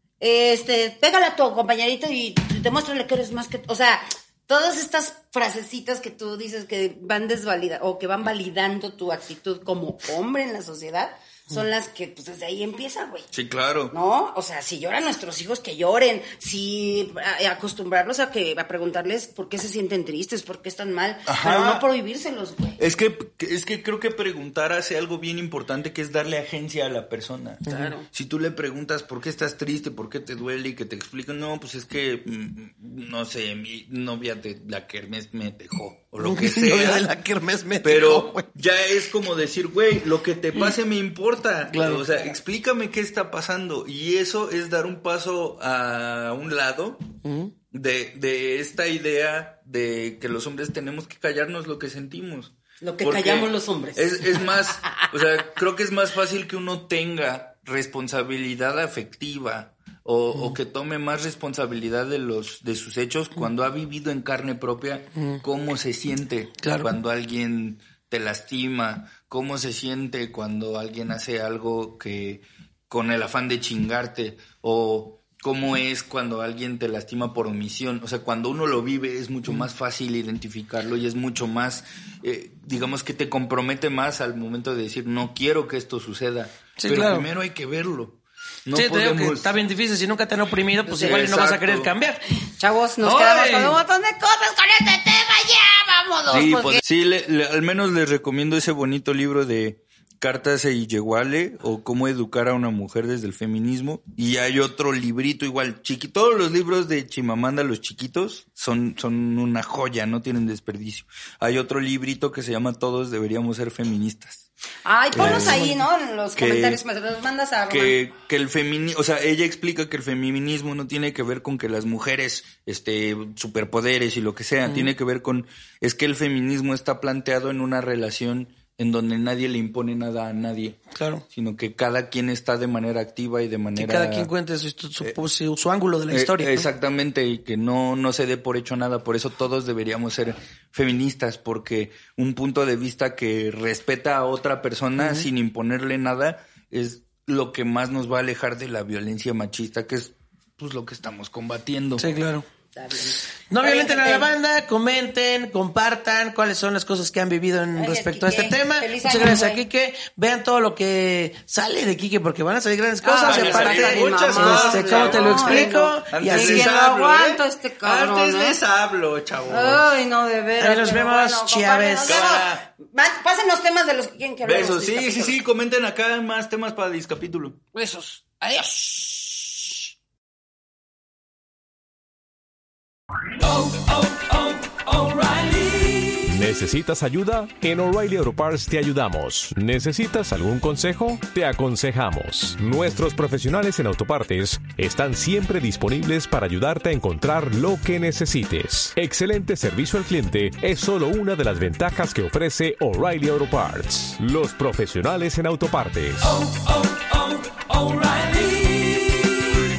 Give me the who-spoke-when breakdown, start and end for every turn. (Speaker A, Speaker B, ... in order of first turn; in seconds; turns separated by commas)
Speaker A: 0.2-13.2, Speaker B: 13.3-13.9, Speaker A: 13.9-22.8, Speaker B: 21.2-21.8, Speaker B: 22.8-37.1, Speaker A: 27.7-28.1, Speaker C: 36.2-38.5, Speaker B: 37.8-47.0, Speaker C: 41.7-42.1, Speaker C: 47.2-47.5, Speaker B: 47.7-89.5, Speaker A: 52.8-55.1, Speaker C: 66.6-66.9, Speaker C: 86.8-87.3, Speaker C: 88.7-92.2, Speaker A: 90.9-91.2, Speaker B: 90.9-91.9, Speaker A: 92.4-96.8, Speaker C: 93.0-93.8, Speaker B: 96.3-114.5, Speaker A: 114.8-118.0, Speaker B: 115.1-115.7, Speaker C: 115.2-115.7, Speaker B: 116.4-116.8, Speaker B: 117.7-134.3, Speaker C: 130.9-131.2, Speaker C: 133.8-136.7, Speaker B: 136.1-152.1, Speaker C: 145.0-145.3, Speaker C: 152.0-152.4, Speaker A: 152.7-154.3, Speaker C: 153.5-166.8, Speaker A: 157.8-159.6, Speaker A: 163.0-168.6, Speaker B: 163.2-169.8, Speaker A: 169.5-175.4, Speaker C: 170.6-172.2, Speaker B: 172.0-172.6, Speaker B: 174.4-177.6, Speaker A: 177.7-179.7, Speaker B: 183.8-185.4, Speaker D: 186.1-209.4